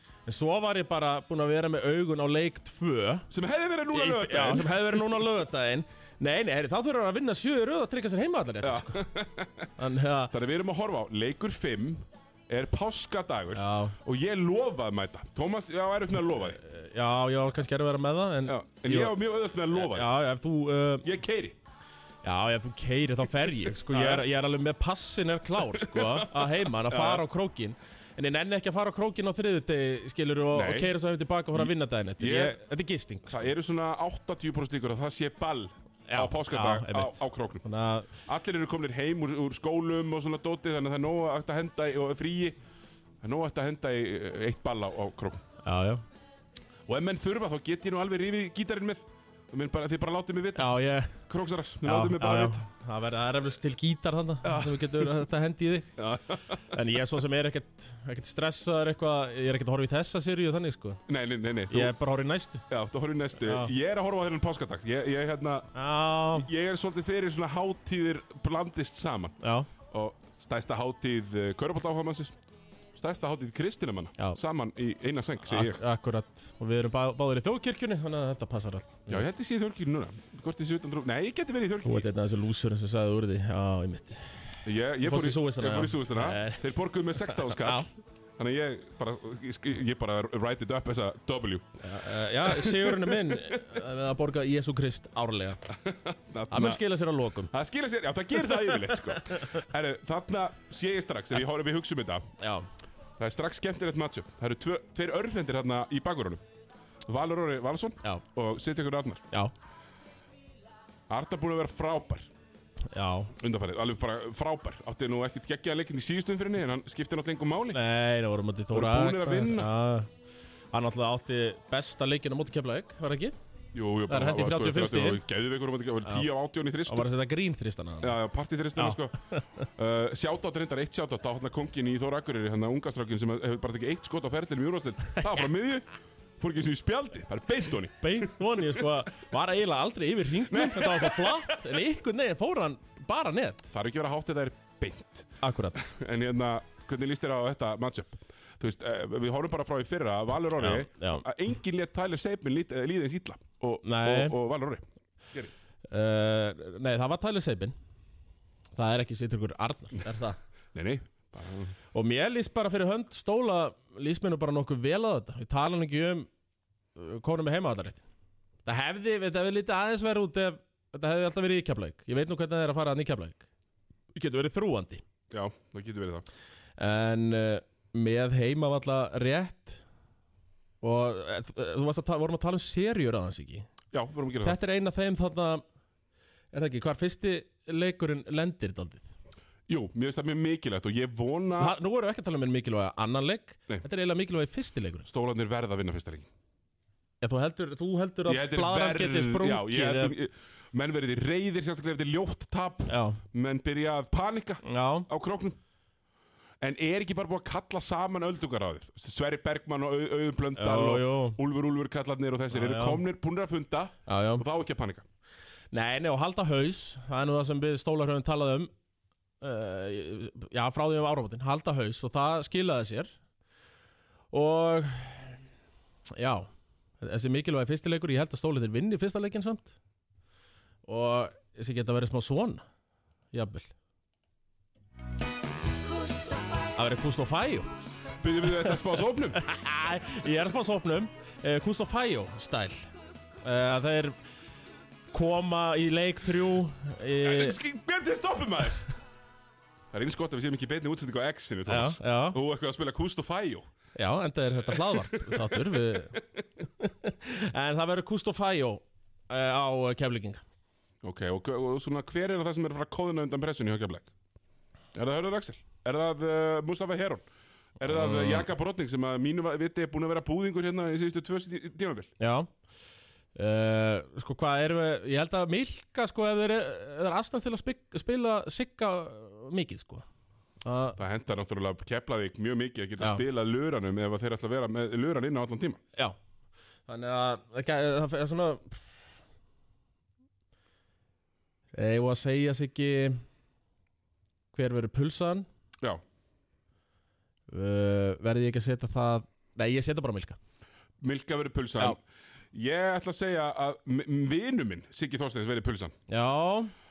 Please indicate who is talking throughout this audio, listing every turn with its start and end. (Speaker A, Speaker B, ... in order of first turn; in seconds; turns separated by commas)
Speaker A: 0.3-3.3, Speaker B: 3.3-5.2, Speaker A: 3.9-9.1, Speaker B: 8.6-9.7, Speaker A: 9.8-10.3, Speaker B: 10.3-16.6, Speaker A: 13.5-14.0, Speaker A: 16.5-19.2, Speaker B: 18.5-20.1, Speaker A: 19.7-21.1, Speaker B: 21.0-21.6, Speaker A: 22.2-33.5, Speaker B: 23.9-24.3, Speaker B: 25.7-27.2, Speaker B: 30.5-30.9, Speaker B: 31.5-32.6, Speaker B: 33.3-37.6, Speaker A: 36.1-38.1, Speaker B: 38.2-42.6, Speaker B: 43.2-45.4, Speaker A: 45.6-46.0, Speaker B: 46.9-50.7, Speaker A: 50.6-51.2, Speaker B: 51.3-52.7, Speaker A: 51.8-55.9, Speaker B: 54.4-55.2, Speaker B: 56.0-56.8, Speaker A: 56.7-61.0, Speaker B: 61.1-61.9, Speaker A: 61.7-62.6, Speaker B: 62.7-65.7, Speaker A: 63.4-63.7, Speaker A: 65.8-66.5, Speaker B: 66.3-69.4, Speaker A: 69.4-69.7, Speaker B: 69.9-72.4, Speaker B: 73.0-75.8, Speaker A: 75.5-79.2, Speaker B: 79.1-82.1, Speaker A: 81.8-87.9, Speaker B: 84.6-91.8, Speaker A: 91.8-95.6, Speaker B: 92.4-93.7, Speaker B: 95.7-96.8, Speaker A: 96.5-97.5, Speaker B: 97.5-102.3, Speaker A: 98.5-99.7, Speaker A: 102.4-102.7, Speaker B: 103.2-106.4, Speaker B: 107.1-109.3, Speaker B: 111.1-112.3, Speaker A: 112.9-113.3, Speaker B: 113.4-117.8, Speaker A: 117.7-120.1, Speaker B: 118.7-119.7, Speaker A: 120.7-123.3, Speaker B: 123.7-127.1, Speaker A: 124.1-125.2, Speaker A: 126.9-128.2, Speaker B: 128.0-135.9, Speaker A: 128.8-129.6, Speaker B: 136.4-138.8, Speaker A: 138.0-143.7, Speaker B: 140.4-141.8, Speaker B: 143.7-155.5, Speaker A: 145.4-145.8, Speaker A: 150.6-151.3, Speaker A: 153.8-154.4, Speaker A: 155.8-157.8, Speaker A: 158.8-160.4, Speaker B: 160.7-161.8, Speaker A: 161.9-166.3, Speaker A: 167.0-168.0, Speaker A: 168.7-173.5, Speaker A: 174.1-175.0, Speaker B: 175.3-176.3, Speaker A: 176.8-179.8, Speaker A: 180.8-183.7, Speaker B: 183.9-184.6, Speaker A: 184.4-185.6, Speaker A: 186.5-189.1, Speaker B: 189.7-191.8, Speaker A: 191.6-195.1, Speaker B: 195.1-196.3, Speaker A: 197.2-200.2, Speaker B: 198.3-205.6, Speaker A: 202.9-203.2, Speaker A: 204.6-205.1, Speaker B: 206.6-215.1, Speaker A: 210.6-211.4, Speaker A: 212.5-213.0, Speaker A: 214.1-214.4, Speaker A: 215.7-218.7, Speaker A: 219.4-223.1, Speaker A: 224.3-225.4, Speaker A: 226.1-226.5, Speaker A: 227.0-229.8, Speaker A: 230.9-232.6, Speaker A: 233.3-233.7, Speaker A: 236.8-237.7, Speaker B: 238.2-239.4, Speaker A: 238.5-238.8, Speaker A: 239.3-242.9, Speaker A: 243.4-244.2, Speaker A: 245.1-247.6, Speaker B: 247.2-248.9, Speaker B: 249.9-253.7, Speaker A: 251.7-252.4, Speaker A: 254.0-256.2, Speaker B: 254.7-256.2, Speaker A: 256.8-260.4, Speaker B: 261.0-264.1, Speaker B: 264.9-267.2, Speaker B: 267.8-272.1, Speaker A: 267.9-268.5, Speaker A: 272.2-272.5, Speaker A: 273.4-280.1, Speaker A: 280.6-281.0, Speaker B: 281.0-285.8, Speaker A: 286.9-288.8, Speaker A: 291.7-293.2, Speaker A: 294.5-295.5, Speaker A: 297.5-300.4, Speaker B: 301.0-302.0, Speaker B: 302.5-305.9, Speaker A: 306.1-306.7